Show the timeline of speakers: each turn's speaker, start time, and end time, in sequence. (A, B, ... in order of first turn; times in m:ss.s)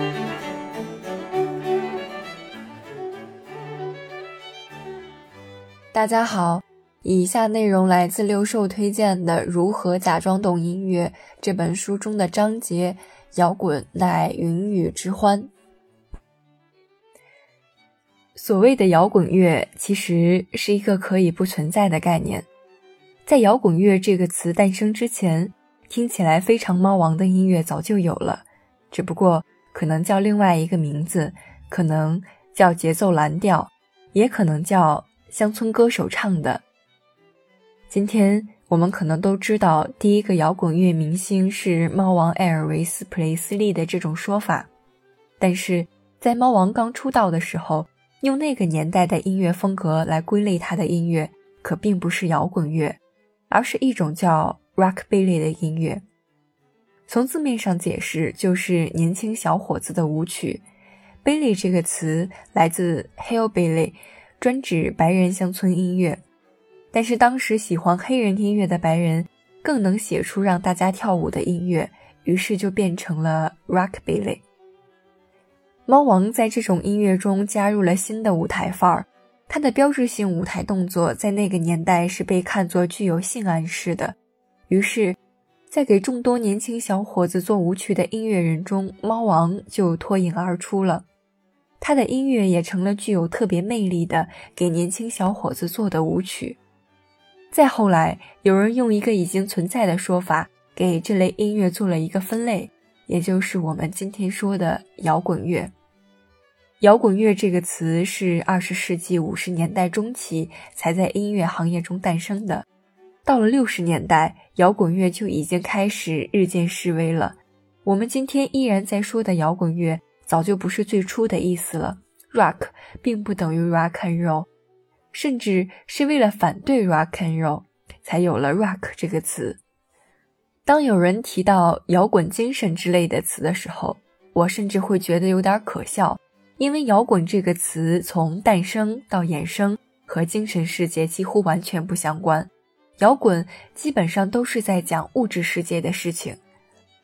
0:05.9-0:15.5 A
0:18.4-0:22.5 A
0:23.2-0:36.6 A
0:37.9-0:44.7 A
0:45.4-0:56.0 A
0:57.1-1:00.6 A
1:01.2-1:06.2 A
1:06.9-1:14.4 A
1:15.9-1:24.2 A
1:24.7-1:25.2 A
1:25.7-1:31.0 A
1:31.8-1:36.6 A
1:37.5-1:45.7 A
1:46.8-1:52.6 A
1:53.2-2:04.5 A
2:05.1-2:09.6 A
2:10.6-2:26.4 A